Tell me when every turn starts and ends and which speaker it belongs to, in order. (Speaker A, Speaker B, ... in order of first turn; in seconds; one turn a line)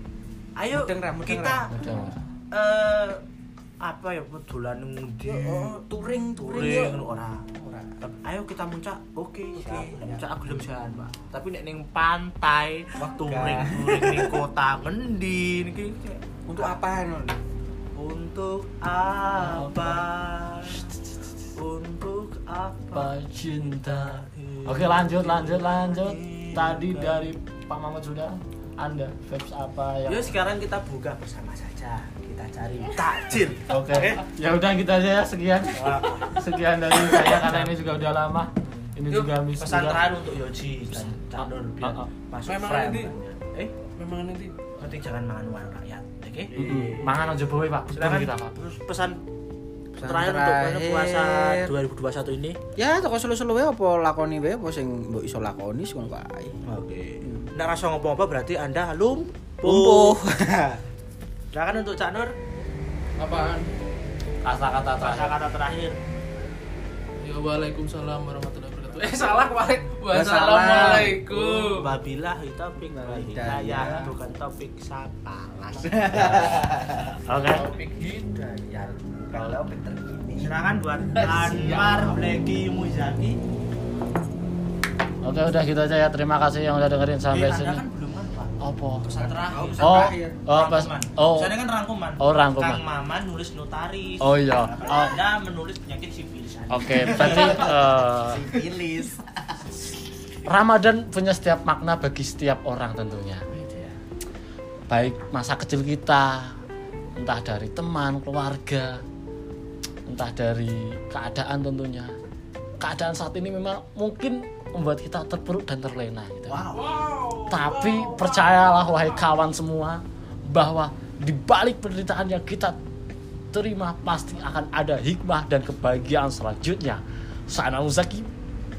Speaker A: 0.6-1.7
Speaker B: 0.7-2.1
Speaker C: 1.7-2.2
Speaker A: 2.5-3.2
Speaker A: 3.8-5.8
Speaker B: 5.2-8.0
Speaker A: 6.4-7.4
Speaker A: 8.0-16.7
Speaker B: 9.6-10.2
Speaker B: 13.0-14.4
Speaker B: 16.5-17.4
Speaker A: 17.9-20.8
Speaker C: 19.4-20.0
Speaker A: 21.6-23.1
Speaker C: 22.9-30.3
Speaker A: 23.7-27.3
Speaker A: 30.1-34.2
Speaker C: 33.7-40.0
Speaker A: 35.7-37.7
Speaker A: 38.7-43.7
Speaker C: 40.9-42.0
Speaker D: 42.4-43.1
Speaker D: 43.9-44.6
Speaker A: 44.8-46.5
Speaker B: 46.5-47.1
Speaker C: 46.5-48.5
Speaker A: 47.9-49.2
Speaker B: 50.0-51.7
Speaker A: 50.0-52.6
Speaker B: 52.8-56.6
Speaker A: 56.6-60.2
Speaker B: 57.2-57.5
Speaker B: 59.6-60.8
Speaker A: 61.5-62.3
Speaker D: 63.2-63.7
Speaker C: 64.4-65.3
Speaker A: 65.0-66.0
Speaker D: 67.2-71.9
Speaker B: 70.1-71.4
Speaker A: 71.3-76.7
Speaker B: 72.9-74.1
Speaker B: 75.8-77.2
Speaker C: 77.2-77.7
Speaker D: 77.5-78.2
Speaker B: 78.2-80.5
Speaker A: 80.4-83.4
Speaker D: 81.2-81.6
Speaker B: 81.2-81.8
Speaker C: 85.2-87.8
Speaker A: 87.3-97.7
Speaker C: 88.6-89.0
Speaker B: 89.2-90.4
Speaker C: 89.8-91.5
Speaker C: 92.2-92.8
Speaker C: 94.2-95.2
Speaker C: 96.7-98.5
Speaker B: 97.1-99.6
Speaker C: 100.4-103.6
Speaker C: 104.9-106.5
Speaker C: 107.2-109.0
Speaker C: 110.1-112.1
Speaker C: 112.8-116.7
Speaker A: 116.5-119.0
Speaker D: 116.8-117.4
Speaker C: 117.5-122.8
Speaker C: 123.5-128.3